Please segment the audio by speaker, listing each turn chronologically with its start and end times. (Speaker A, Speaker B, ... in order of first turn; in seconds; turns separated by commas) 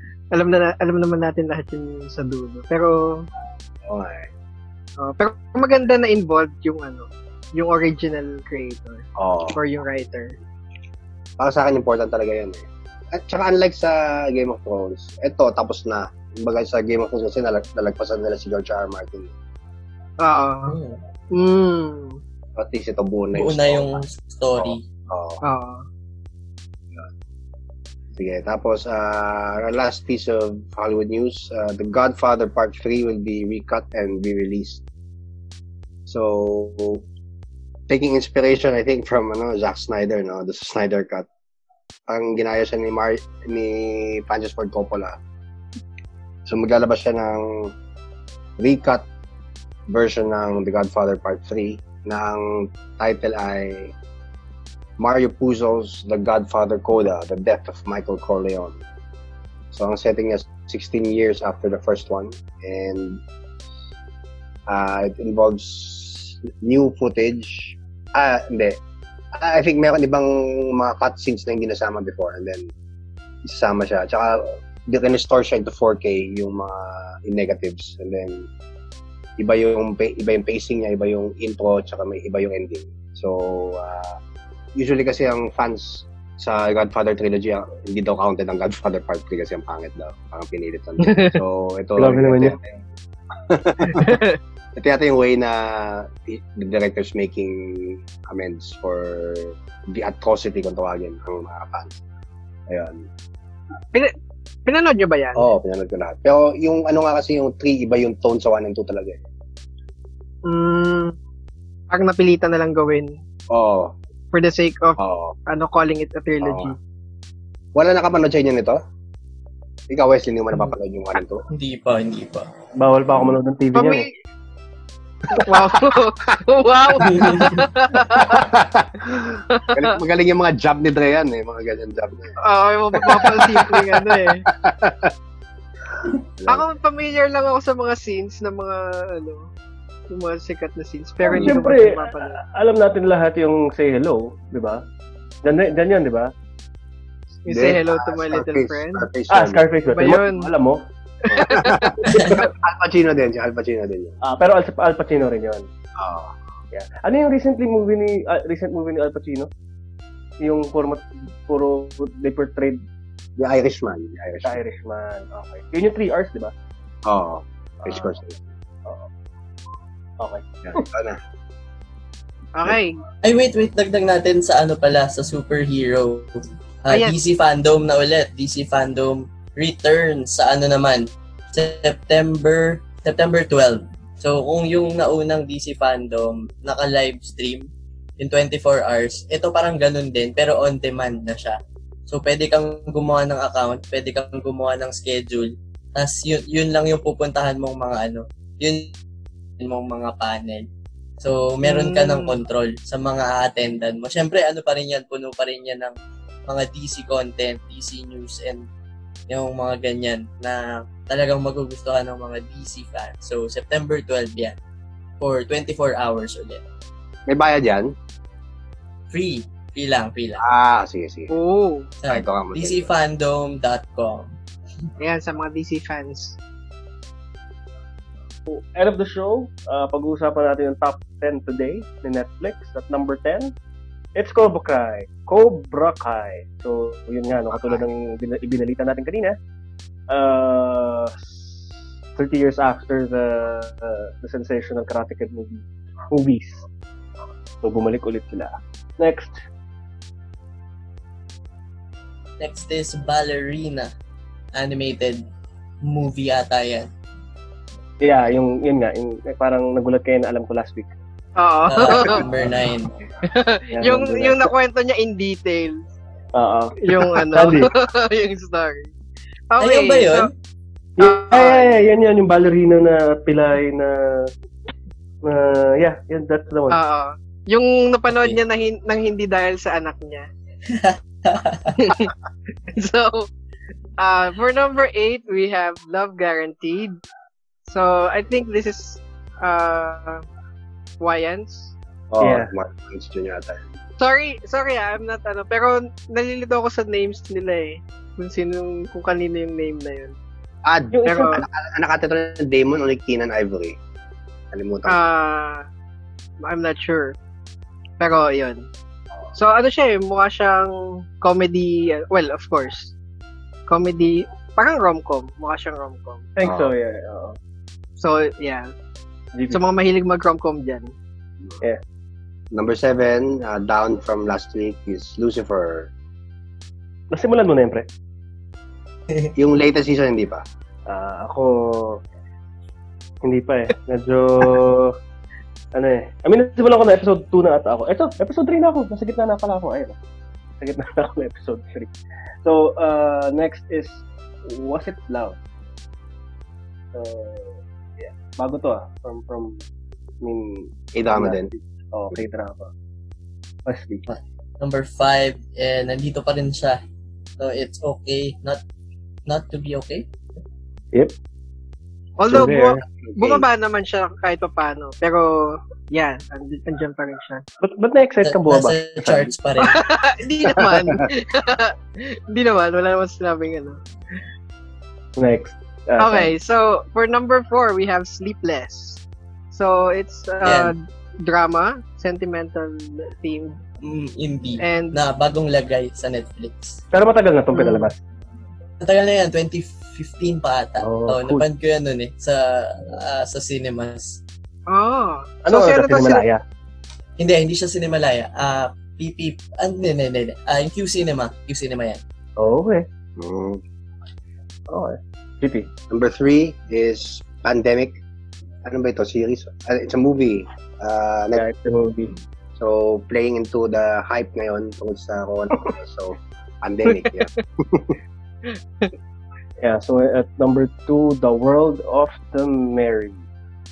Speaker A: 0.3-3.3, Speaker B: 3.9-4.3, Speaker A: 5.0-10.3, Speaker B: 9.2-9.6, Speaker B: 11.4-12.6, Speaker B: 13.1-19.3, Speaker A: 20.2-20.8, Speaker C: 20.7-21.0, Speaker A: 21.3-22.2, Speaker B: 22.6-24.0, Speaker C: 23.3-24.8, Speaker B: 24.6-25.4, Speaker A: 25.4-25.9, Speaker B: 28.2-34.8, Speaker B: 36.1-37.0, Speaker B: 37.9-41.3, Speaker B: 42.1-45.1, Speaker B: 46.5-47.8, Speaker B: 48.6-49.1, Speaker B: 49.9-53.9, Speaker B: 55.0-58.8, Speaker B: 59.7-63.2, Speaker B: 64.7-68.8, Speaker B: 69.3-72.7, Speaker B: 73.5-78.5, Speaker B: 79.4-84.2, Speaker B: 84.8-92.8, Speaker A: 91.0-91.4, Speaker D: 92.0-92.5, Speaker B: 93.5-94.1, Speaker A: 94.0-94.4, Speaker B: 94.8-102.0, Speaker B: 102.7-103.1, Speaker A: 104.7-105.5, Speaker B: 105.4-109.2, Speaker A: 110.5-111.2, Speaker A: 111.9-113.1, Speaker B: 113.5-113.9, Speaker A: 114.3-116.8, Speaker B: 115.0-115.4, Speaker B: 116.4-116.7, Speaker B: 117.8-118.8, Speaker B: 119.9-121.5, Speaker C: 121.5-122.5, Speaker D: 122.8-124.1, Speaker A: 123.7-124.1, Speaker A: 125.3-128.5, Speaker B: 127.0-127.5, Speaker C: 127.1-127.6, Speaker B: 128.2-132.4, Speaker A: 129.1-130.0, Speaker A: 132.4-134.5, Speaker B: 133.0-135.1, Speaker B: 136.0-136.7, Speaker A: 136.5-139.5, Speaker A: 140.1-142.4, Speaker D: 141.3-144.8, Speaker B: 141.3-141.6, Speaker D: 145.4-146.3, Speaker A: 147.4-149.1, Speaker B: 147.5-149.7, Speaker D: 149.3-150.8, Speaker A: 149.9-150.5, Speaker A: 151.3-152.4, Speaker B: 151.3-154.2, Speaker D: 154.2-155.7, Speaker B: 156.0-156.4, Speaker D: 156.7-159.5, Speaker D: 160.4-162.8, Speaker B: 163.4-164.6, Speaker D: 164.4-166.5, Speaker B: 167.1-168.4, Speaker D: 167.8-168.2, Speaker D: 170.2-170.8, Speaker B: 170.6-171.2, Speaker A: 172.6-173.0, Speaker C: 173.2-176.3, Speaker C: 176.8-187.7, Speaker C: 188.2-198.9, Speaker C: 199.6-200.7, Speaker C: 201.2-205.9, Speaker A: 201.7-202.4, Speaker C: 206.5-208.6, Speaker C: 209.3-214.5, Speaker C: 215.2-216.6, Speaker B: 217.3-217.9, Speaker C: 219.1-220.4, Speaker B: 220.4-221.3, Speaker A: 221.3-221.9, Speaker C: 222.0-224.3, Speaker B: 222.1-222.9, Speaker A: 225.0-226.4, Speaker D: 228.5-233.5, Speaker D: 234.2-239.4, Speaker D: 240.1-246.7, Speaker D: 247.6-249.4, Speaker C: 252.4-253.9, Speaker C: 254.6-255.2, Speaker C: 255.8-256.9, Speaker D: 258.0-260.9, Speaker A: 261.4-262.2, Speaker C: 261.7-262.9, Speaker A: 263.3-265.8, Speaker D: 263.7-264.5, Speaker D: 266.4-267.7, Speaker A: 266.8-268.9, Speaker A: 269.5-270.3, Speaker C: 269.6-270.3, Speaker D: 271.0-274.3, Speaker A: 271.0-271.7, Speaker D: 275.2-276.8, Speaker A: 276.7-280.3, Speaker C: 278.1-278.4, Speaker C: 280.7-281.8, Speaker A: 281.8-282.1, Speaker A: 282.7-283.3, Speaker A: 284.0-286.9, Speaker A: 287.7-290.2, Speaker A: 291.0-291.8, Speaker B: 292.1-293.7, Speaker D: 292.2-292.5, Speaker A: 294.0-300.2, Speaker B: 300.6-303.8, Speaker D: 300.9-301.4, Speaker A: 301.1-301.4, Speaker B: 304.5-305.0, Speaker A: 304.9-305.7, Speaker A: 306.5-307.2, Speaker A: 308.0-308.6, Speaker A: 309.4-312.9, Speaker A: 313.7-316.2, Speaker D: 316.4-317.4, Speaker B: 316.4-316.7, Speaker A: 318.0-318.7, Speaker A: 319.5-320.9, Speaker B: 322.5-325.9, Speaker D: 327.1-327.9, Speaker B: 329.4-330.4, Speaker D: 330.9-332.0, Speaker D: 333.2-334.9, Speaker D: 335.8-340.0, Speaker D: 340.6-341.9, Speaker D: 342.4-345.4, Speaker D: 346.9-349.6, Speaker D: 350.2-352.7, Speaker B: 350.9-351.5, Speaker D: 353.7-354.0, Speaker C: 354.1-356.8, Speaker C: 357.4-358.6, Speaker C: 359.3-360.1, Speaker A: 362.2-367.4, Speaker D: 362.3-362.8, Speaker B: 363.0-363.4, Speaker D: 367.6-369.3, Speaker C: 368.2-369.9, Speaker A: 369.6-373.8, Speaker D: 375.2-376.3, Speaker A: 376.0-383.6, Speaker C: 380.4-380.7, Speaker C: 383.8-386.8, Speaker A: 384.6-385.0, Speaker D: 386.9-388.0, Speaker A: 387.6-387.9, Speaker C: 388.8-394.2, Speaker D: 390.8-391.4, Speaker A: 394.7-396.2, Speaker D: 395.5-396.4, Speaker C: 397.2-402.0, Speaker D: 402.4-402.9, Speaker B: 403.2-403.6, Speaker D: 404.7-405.7, Speaker B: 405.9-408.0, Speaker B: 408.6-411.4, Speaker D: 411.4-412.1, Speaker B: 412.6-417.9, Speaker A: 418.5-418.9, Speaker D: 419.6-423.2